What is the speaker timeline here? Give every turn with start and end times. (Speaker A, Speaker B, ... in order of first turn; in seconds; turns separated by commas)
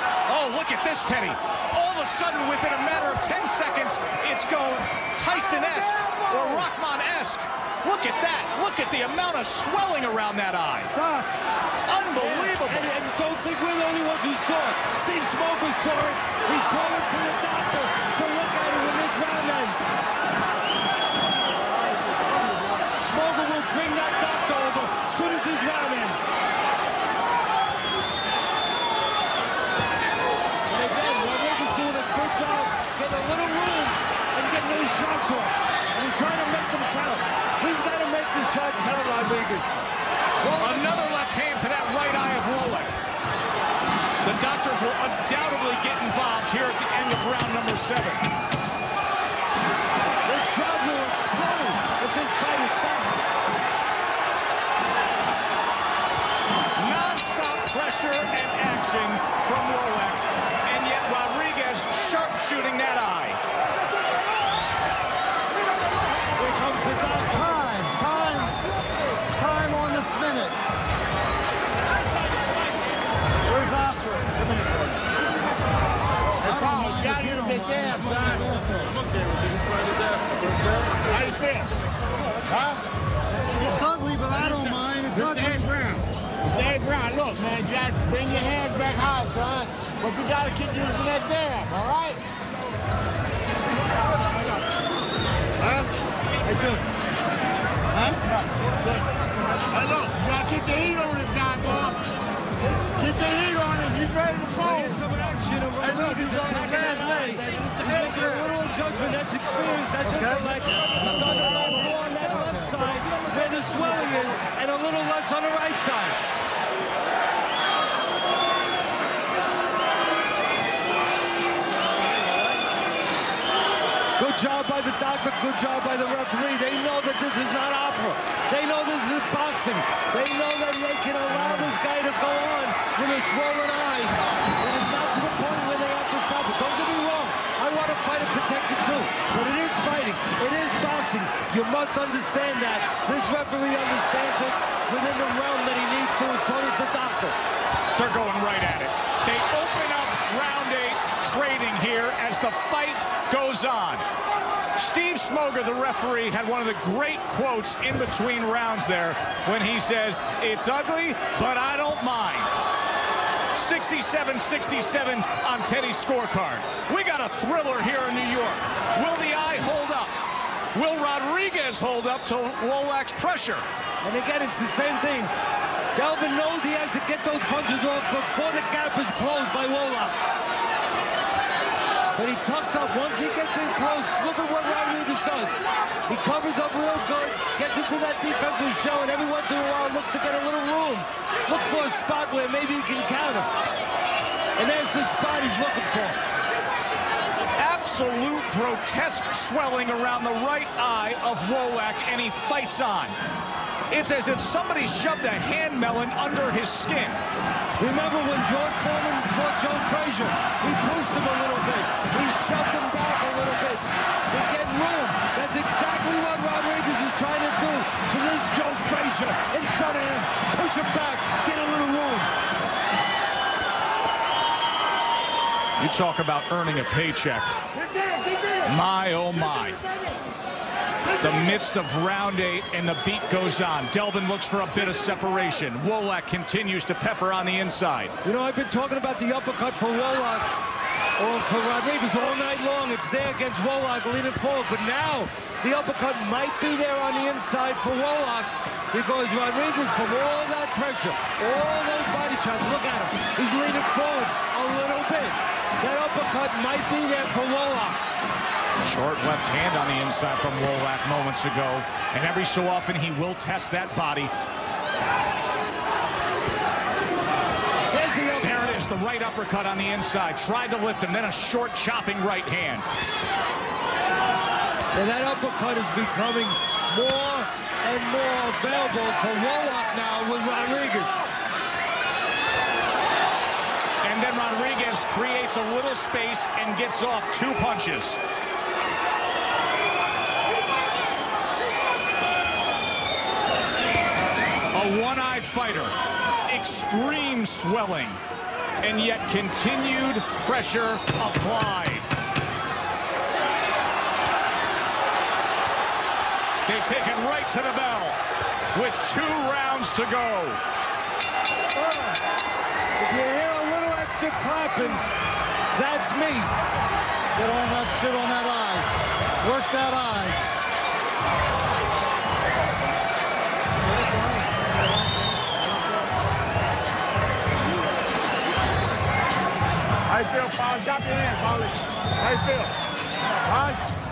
Speaker A: 0.3-10.9, Speaker B: 10.9-11.3, Speaker A: 11.8-12.9, Speaker B: 12.2-19.9, Speaker B: 22.9-26.3, Speaker B: 30.7-39.7, Speaker B: 40.4-41.0, Speaker A: 40.6-42.9, Speaker A: 44.2-48.2, Speaker B: 50.2-53.2, Speaker A: 56.8-63.4, Speaker B: 66.4-67.7, Speaker C: 67.5-68.6, Speaker C: 69.3-70.6, Speaker C: 73.5-74.3, Speaker D: 76.4-78.9, Speaker C: 76.5-78.7, Speaker D: 80.9-81.7, Speaker D: 82.5-82.8, Speaker C: 83.6-85.6, Speaker D: 84.3-92.2, Speaker D: 95.6-95.9, Speaker D: 99.7-102.0, Speaker D: 102.9-105.0, Speaker B: 104.6-116.2, Speaker D: 106.2-107.0, Speaker B: 124.2-147.4, Speaker A: 147.9-154.0, Speaker A: 154.7-162.6, Speaker A: 163.5-170.1, Speaker A: 170.7-173.6, Speaker B: 174.0-175.3, Speaker B: 175.9-180.2, Speaker B: 182.1-193.5, Speaker B: 194.6-196.2, Speaker A: 197.6-203.2, Speaker A: 203.9-207.2, Speaker B: 207.8-222.3, Speaker A: 225.8-227.5, Speaker A: 228.6-229.8, Speaker A: 231.2-238.1, Speaker B: 238.2-240.4, Speaker B: 241.2-258.0, Speaker A: 258.8-264.3, Speaker B: 267.9-268.8, Speaker A: 268.4-272.9, Speaker B: 274.9-281.2, Speaker A: 284.0-288.2, Speaker A: 294.7-295.9, Speaker A: 296.5-298.2, Speaker A: 298.8-302.1, Speaker A: 306.6-308.2, Speaker A: 308.7-310.6, Speaker B: 313.0-315.0, Speaker B: 315.7-316.5, Speaker C: 317.4-318.9, Speaker C: 319.4-320.4, Speaker D: 330.1-332.7, Speaker D: 333.4-333.8